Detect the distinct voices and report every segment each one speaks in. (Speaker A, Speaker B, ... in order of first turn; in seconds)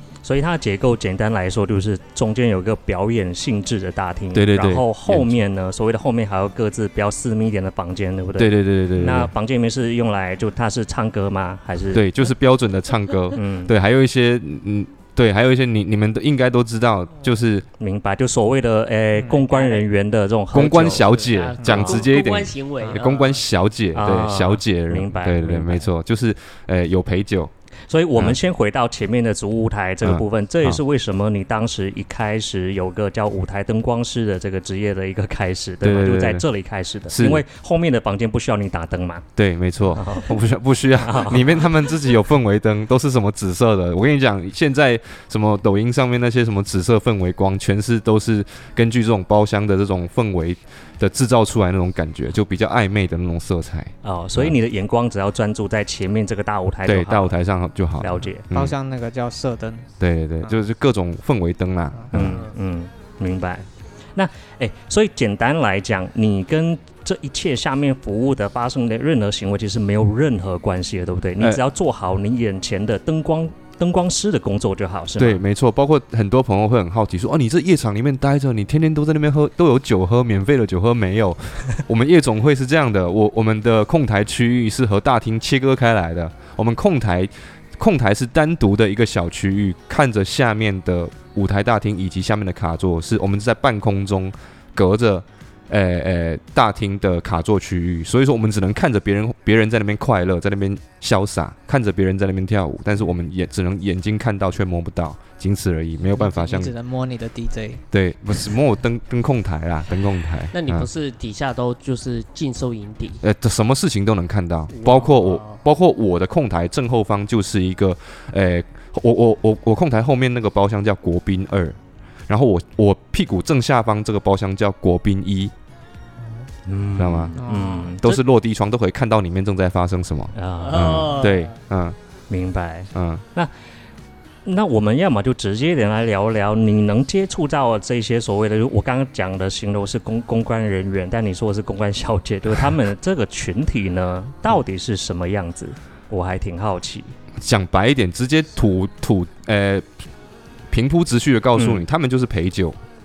Speaker A: 0.2-12.1, 13.3-13.7, 17.8-21.2, 21.8-22.1, 23.9-25.9, 27.9-39.3, 39.9-40.4, 41.0-41.7, 54.0-57.4, 58.0-58.5, 62.1-75.4, 126.7-128.2, 130.3-131.3, 132.3-133.5, 134.4-147.1, 151.6-151.8
Speaker B: 4.3-5.4, 8.4-9.3, 11.9-17.6, 20.5-27.5, 30.0-30.8, 35.8-36.5, 37.1-37.4, 39.4-54.6, 56.9-58.7, 60.0-62.4, 75.2-106.7, 107.9-110.9, 113.2-125.5, 127.0-127.4, 128.0-132.0, 132.9-133.2, 147.4-149.9, 150.7-152.8
Speaker C: 19.2-19.9, 20.7-23.4, 62.1-62.6, 110.5-113.2, 114.7-115.6, 130.6-131.6
Speaker D: 58.5-59.9, 106.1-107.8, 127.4-128.0